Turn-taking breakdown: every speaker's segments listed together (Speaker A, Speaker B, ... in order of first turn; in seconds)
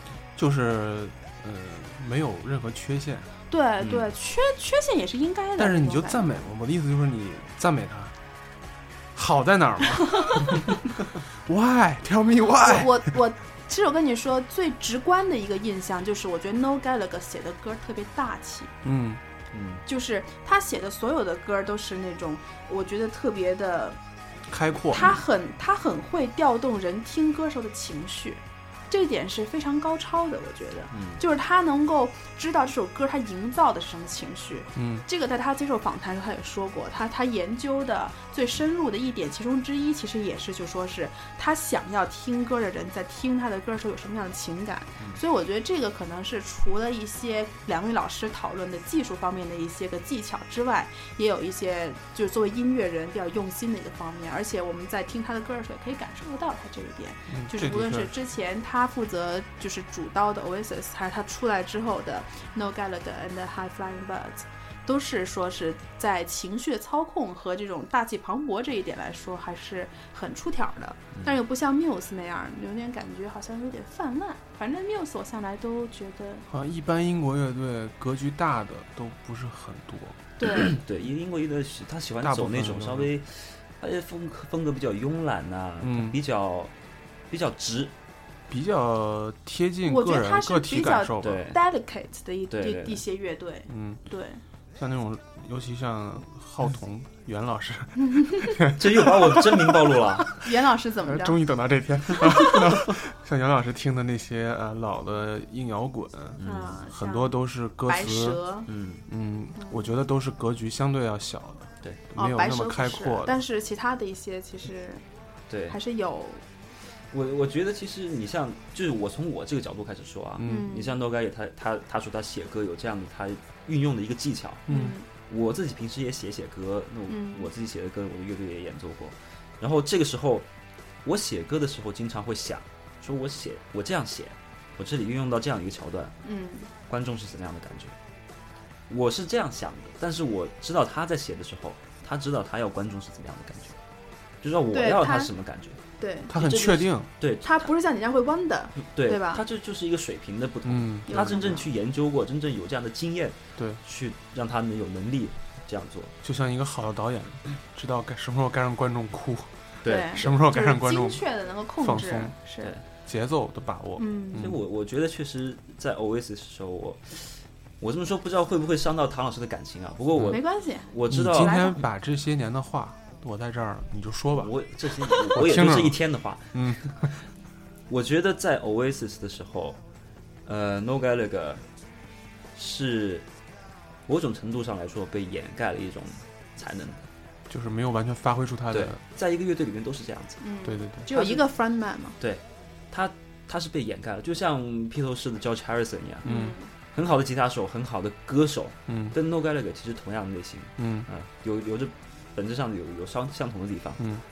Speaker A: 0.4-3.3, 5.6-8.2, 9.1-13.1, 18.8-19.2, 24.5-25.2, 34.8-35.0, 57.3-58.1, 76.5-80.2, 82.2-83.1, 85.8-86.2, 88.5-91.5, 93.7-94.0, 94.8-100.3, 101.1-108.4, 109.1-113.4, 120.4-120.7, 124.7-125.0, 146.3-147.1, 150.7-151.5, 156.2-159.5, 160.1-161.3, 161.8-162.4, 163.1-164.6, 171.1-177.1, 187.5-189.0, 190.7-191.1, 196.2-196.6, 198.9-199.2, 200.8-201.1, 204.0-204.2
Speaker B: 3.5-6.5, 12.6-18.7, 19.9-24.0, 24.9-76.5, 80.4-80.7, 89.9-94.4, 100.4-101.4, 102.2-102.6, 106.4-108.7, 109.6-109.9, 112.2-115.0, 115.7-116.4, 120.4-120.9, 124.7-125.1, 127.1-127.5, 136.2-136.7, 144.7-145.3, 146.0-146.3, 147.4-149.4, 151.1-151.7, 159.9-162.8, 164.0-164.5, 170.3-171.8, 190.4-192.2, 196.2-196.7
Speaker C: 3.8-4.1, 19.5-19.9, 30.9-31.2, 80.5-86.7, 87.3-87.9, 91.2-91.6, 92.5-93.0, 98.7-100.4, 106.4-106.8, 108.7-109.0, 115.5-115.8, 117.1-124.7, 125.3-130.5, 131.0-136.2, 136.9-138.0, 138.9-143.8, 144.4-147.7, 148.8-156.1, 159.8-160.2, 164.4-171.8, 174.3-177.0, 177.9-179.8, 180.5-181.6, 182.6-183.3, 184.1-187.1, 188.7-190.4, 191.1-191.4, 192.2-196.3, 196.9-204.0